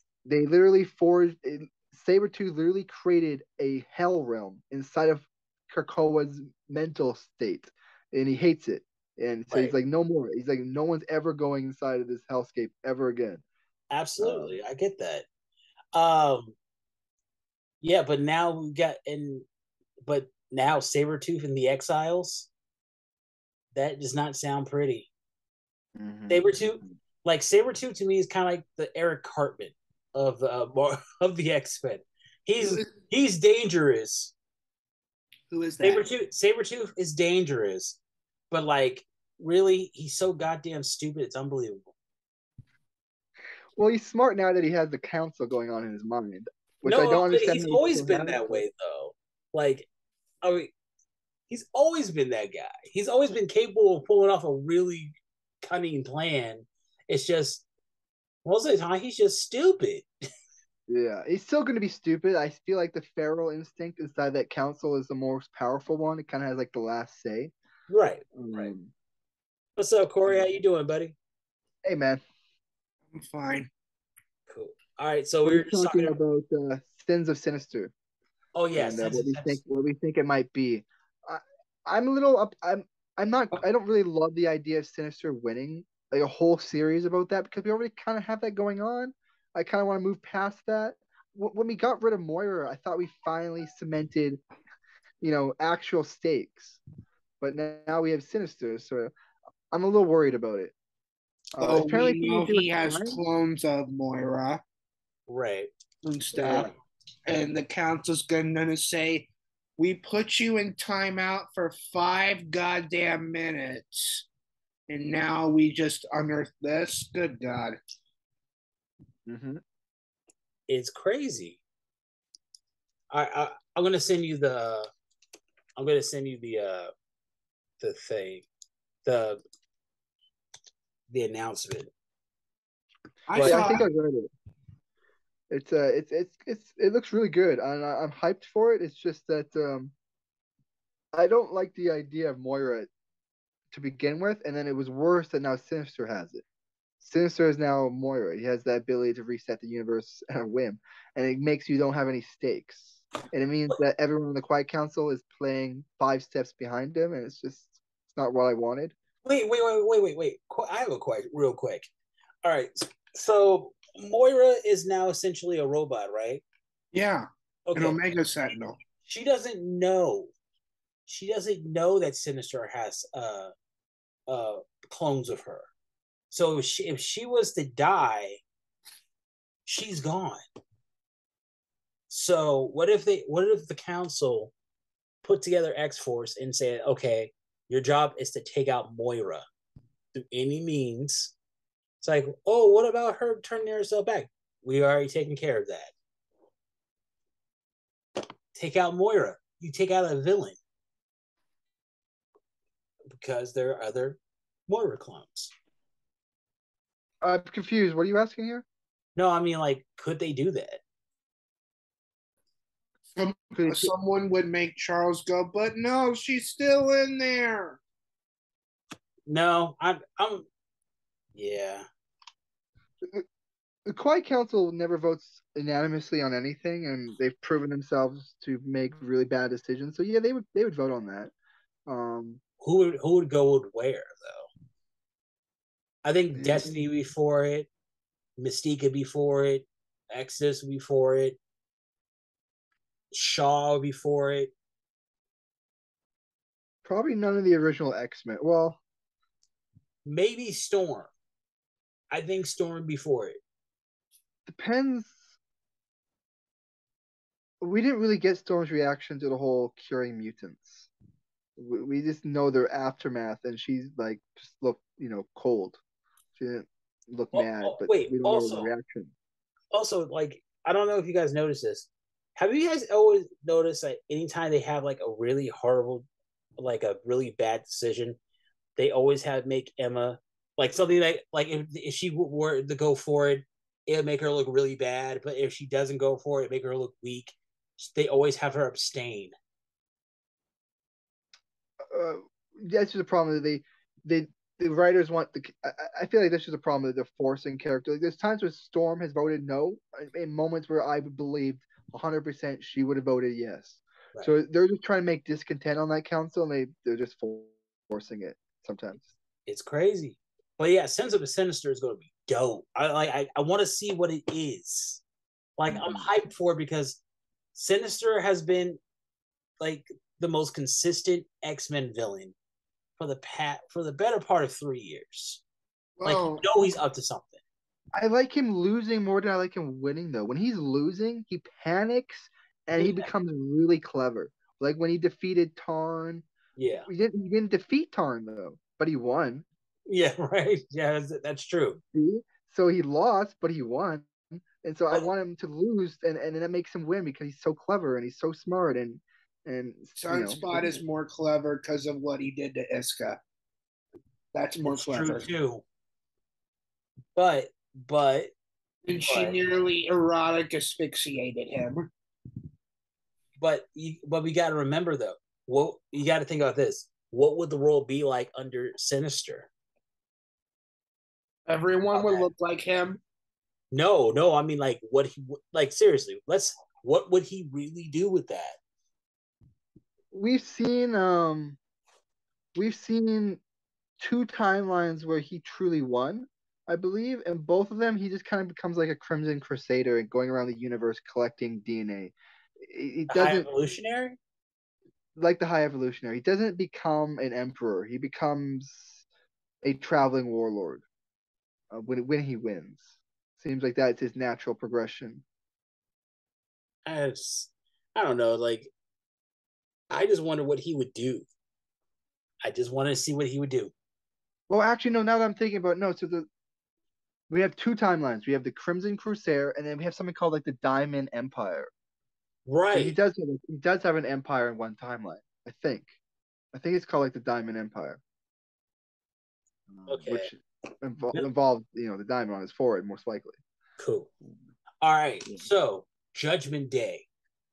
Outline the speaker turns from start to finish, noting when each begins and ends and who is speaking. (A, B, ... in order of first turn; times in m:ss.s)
0:00.3-0:13.4 A
0:09.5-0:09.8 B
0:13.9-0:15.2 B
0:14.2-0:14.6 A
0:15.9-0:16.6 B
0:17.8-0:19.5 B
0:20.1-0:22.5 B
0:23.8-0:25.1 B
0:26.0-0:26.9 A
0:26.3-0:34.3 B
0:32.6-0:32.9 C
0:35.5-0:36.1 C
0:35.8-0:38.0 B
0:38.5-0:41.8 B
0:43.8-0:48.6 A
0:46.8-0:49.9 B
0:50.4-0:50.7 B
0:51.5-0:57.6 B
0:58.4-1:00.1 B
1:00.9-1:07.5 A
1:07.9-1:08.7 B
1:08.4-1:08.9 A
1:09.8-1:11.2 B
1:11.8-1:12.2 A
1:13.1-1:13.7 C
1:14.5-1:16.2 B
1:15.4-1:17.9 A
1:18.6-1:19.6 B
1:18.7-1:34.4 A
1:35.2-1:36.8 A
1:37.4-1:39.1 A
1:39.7-1:40.7 A
1:41.6-1:43.2 A
1:41.6-1:44.6 C
1:45.3-1:45.7 B
1:46.0-1:46.7 C
1:46.4-1:46.7 A
1:47.3-1:54.3 C
1:54.9-1:57.8 C
1:59.3-1:59.6 A
2:00.7-2:01.6 B
2:03.1-2:04.9 B
2:05.8-2:06.9 B
2:07.8-2:08.5 B
2:09.0-2:09.4 B
2:11.1-2:11.9 B
2:13.3-2:13.9 C
2:13.3-2:13.8 B
2:13.4-2:14.3 A
2:15.5-2:19.9 A
2:21.1-2:22.9 A
2:23.7-2:26.4 A
2:27.0-2:39.0 A
2:39.2-2:41.9 B
2:42.4-2:46.4 B
2:46.9-2:48.8 C
2:47.7-2:48.0 B
2:49.0-2:50.3 B
2:51.1-2:53.5 B
2:54.3-2:55.7 B
2:56.3-2:58.4 B
2:59.7-3:00.4 B
3:02.1-3:04.5 B
3:05.2-3:09.5 B
3:10.2-3:11.3 B
3:12.0-3:15.9 B
3:18.6-3:20.6 B
3:23.1-3:25.5 B
3:27.2-3:28.6 A
3:29.2-3:30.8 B
3:33.2-3:37.8 C
3:33.6-3:33.9 A
3:39.3-3:40.5 B
3:41.4-3:41.9 B
3:43.9-3:51.3 A
3:51.9-3:52.4 A
3:52.6-3:54.5 B
3:56.0-3:57.7 B
3:56.3-3:56.7 A
3:58.4-4:01.4 B
4:03.1-4:04.5 B
4:06.8-4:08.8 A
4:10.0-4:11.1 B
4:12.1-4:13.4 B
4:14.5-4:15.3 A
4:17.6-4:20.9 A
4:21.6-4:25.8 A
4:26.4-4:29.1 A
4:27.3-4:28.7 B
4:29.7-4:36.1 B
4:36.6-4:38.2 B
4:38.8-4:49.3 B
4:51.9-5:09.1 A
5:09.5-5:15.0 B
5:15.6-5:17.0 B
5:15.7-5:16.1 A
5:17.6-5:18.8 B
5:19.6-5:22.4 B
5:23.0-5:25.4 B
5:26.0-5:26.4 C
5:26.0-5:27.4 B
5:27.9-5:36.3 A
5:32.8-5:33.1 B
5:36.6-5:36.9 B
5:36.9-5:39.5 A
5:39.9-5:41.8 B
5:41.9-5:50.8 A
5:50.0-5:53.2 C
5:54.3-5:55.3 C
5:54.6-5:55.6 B
5:57.2-5:58.3 B
5:58.9-6:01.9 C
5:59.0-5:59.4 B
6:03.4-6:09.5 B
6:11.5-6:13.0 C
6:11.9-6:12.3 B
6:13.7-6:18.6 B
6:20.1-6:21.6 A
6:22.6-6:23.4 A
6:24.0-6:33.5 A
6:33.1-6:34.2 B
6:35.2-6:39.0 A
6:39.6-6:40.8 A
6:41.7-6:45.2 A
6:46.9-6:48.7 B
6:49.9-6:51.3 B
6:52.4-6:53.7 B
6:54.5-6:56.3 A
6:57.3-7:01.7 A
7:02.5-7:03.0 B
7:02.7-7:06.0 A
7:06.5-7:08.0 A
7:09.7-7:13.4 A
7:09.9-7:10.3 B
7:13.8-7:14.1 B
7:14.8-7:17.1 B